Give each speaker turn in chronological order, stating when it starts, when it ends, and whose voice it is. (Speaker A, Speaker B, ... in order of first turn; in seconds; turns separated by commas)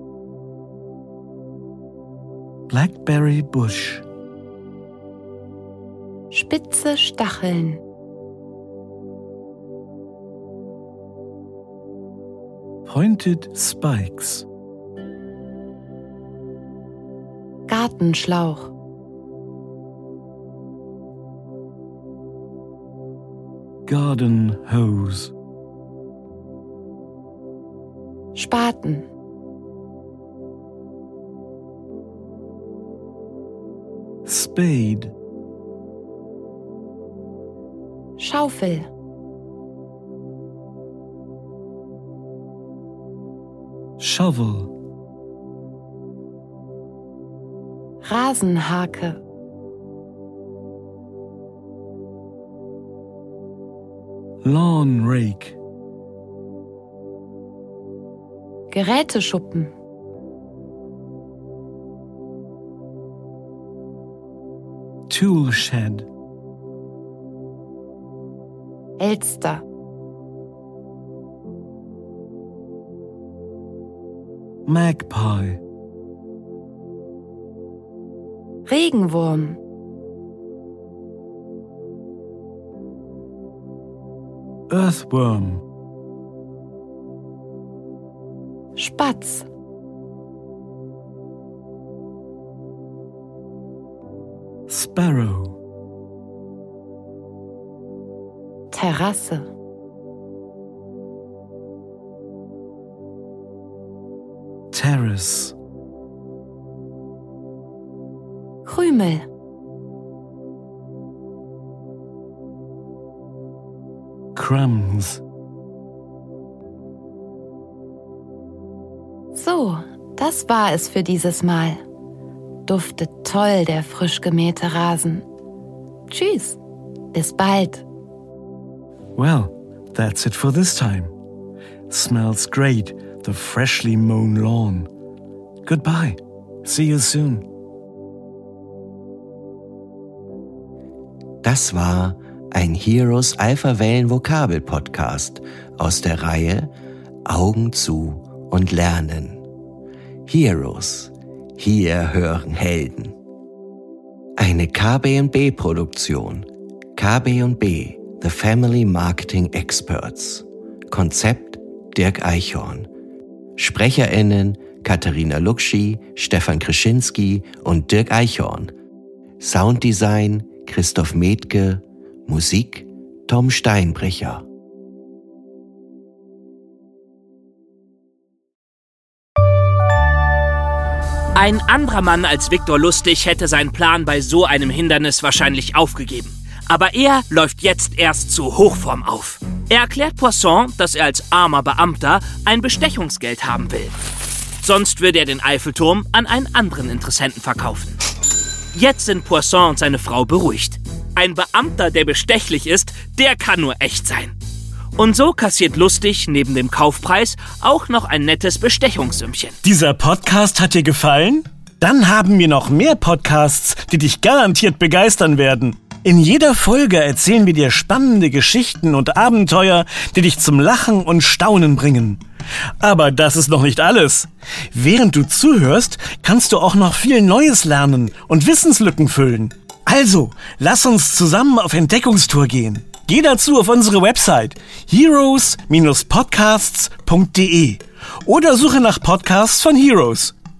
Speaker A: 2.7-4.0, Speaker B: 6.3-7.8, Speaker A: 12.9-14.5, Speaker B: 17.7-18.7, Speaker A: 23.9-25.3, Speaker B: 28.4-29.1, Speaker A: 34.2-35.1, Speaker B: 38.2-38.9, Speaker A: 44.0-44.7, Speaker B: 48.0-49.2, Speaker A: 54.4-55.6, Speaker B: 58.7-59.8, Speaker A: 65.1-66.1, Speaker B: 69.0-69.7, Speaker A: 74.7-75.6, Speaker B: 78.7-79.6, Speaker A: 84.7-85.6, Speaker B: 88.8-89.5, Speaker A: 94.7-95.6, Speaker B: 98.7-99.5, Speaker A: 104.7-105.5, Speaker B: 108.7-109.3, Speaker A: 114.3-115.2, Speaker B: 119.3-121.8, Speaker B: 122.7-125.3, Speaker B: 126.1-126.6, Speaker B: 127.1-127.8, Speaker A: 129.2-131.1, Speaker A: 131.9-134.9, Speaker A: 135.7-137.4, Speaker C: 141.4-146.7, Speaker C: 147.3-149.4, Speaker C: 150.3-153.2, Speaker C: 154.4-162.9, Speaker C: 163.6-168.7, Speaker C: 169.4-174.4, Speaker D: 181.3-194.0, Speaker D: 194.6-198.0, Speaker D: 198.7-204.3, Speaker D: 205.0-209.6, Speaker A: 209.6-222.2, Speaker A: 222.8-240.3